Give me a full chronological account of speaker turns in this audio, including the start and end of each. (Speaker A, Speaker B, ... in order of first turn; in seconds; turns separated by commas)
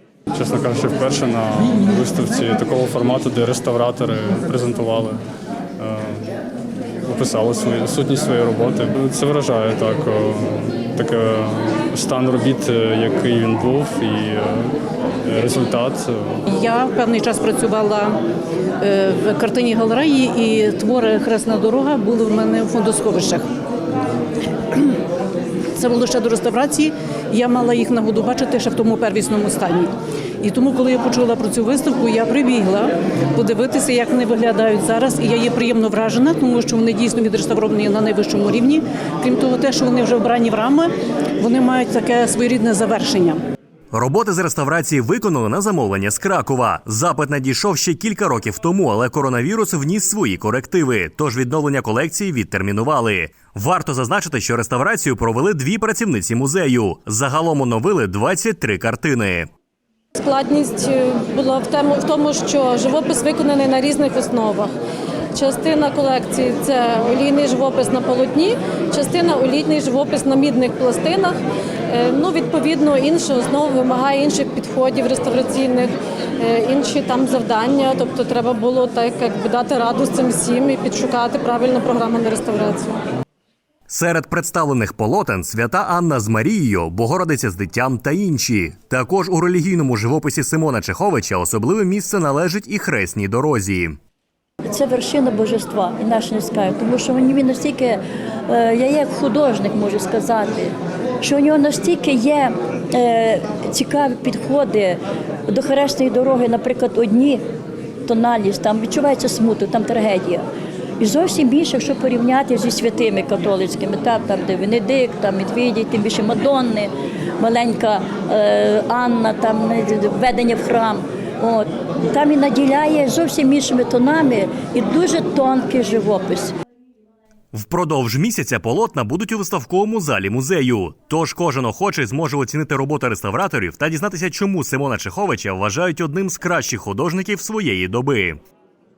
Speaker A: 0.3-5.2, Speaker A: 5.8-6.3, Speaker A: 7.1-14.7, Speaker A: 15.3-16.4, Speaker B: 16.5-18.1, Speaker B: 18.8-23.4, Speaker B: 25.7-29.9, Speaker B: 30.4-40.9, Speaker B: 41.4-43.4, Speaker C: 43.9-59.5, Speaker D: 60.1-64.7, Speaker D: 65.3-83.0, Speaker C: 83.9-94.0, Speaker E: 94.7-107.4, Speaker E: 108.1-110.4, Speaker E: 111.0-126.5, Speaker C: 127.5-138.4